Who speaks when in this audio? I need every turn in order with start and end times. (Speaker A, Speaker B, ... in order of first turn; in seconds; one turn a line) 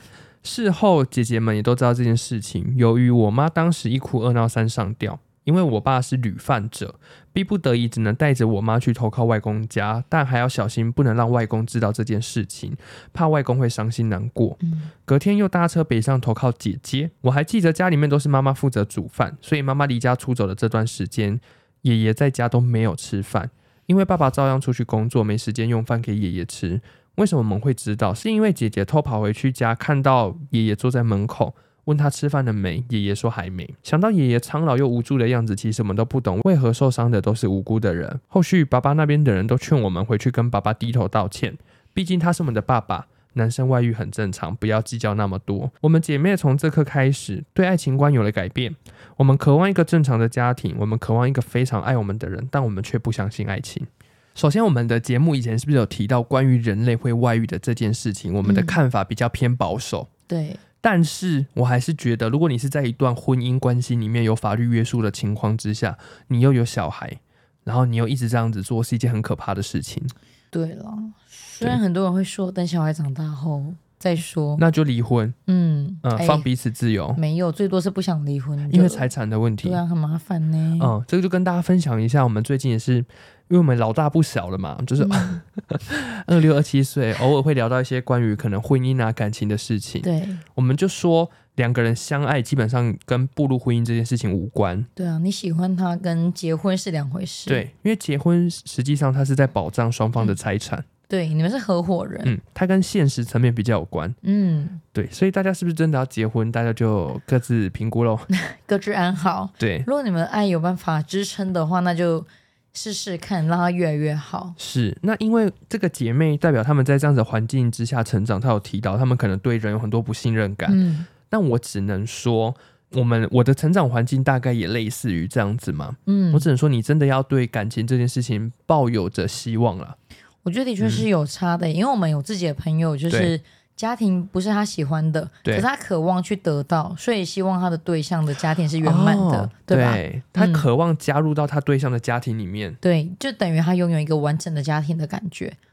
Speaker A: 0.4-60.1
Speaker B: 14.6-14.9
Speaker B: 58.4-58.8
Speaker B: 60.3-60.6
Speaker A: 60.8-70.1
Speaker B: 70.5-74.6
Speaker A: 74.6-75.4
Speaker B: 75.5-76.5
Speaker A: 76.0-77.2
Speaker B: 77.2-79.1
Speaker A: 78.7-79.8
Speaker B: 79.6-80.9
Speaker A: 80.8-94.9
Speaker B: 85.0-85.4
Speaker B: 90.0-90.4
Speaker B: 95.0-97.7
Speaker A: 97.5-100.9
Speaker B: 101.1-102.3
Speaker A: 102.2-104.2
Speaker B: 104.2-104.8
Speaker A: 104.9-108.3
Speaker B: 108.3-114.6
Speaker A: 109.6-109.9
Speaker A: 114.6-130.0
Speaker B: 120.7-121.1
Speaker B: 126.1-126.5
Speaker B: 130.4-140.7
Speaker A: 130.8-131.1
Speaker A: 133.1-133.3
Speaker A: 138.8-142.8
Speaker B: 142.8-145.6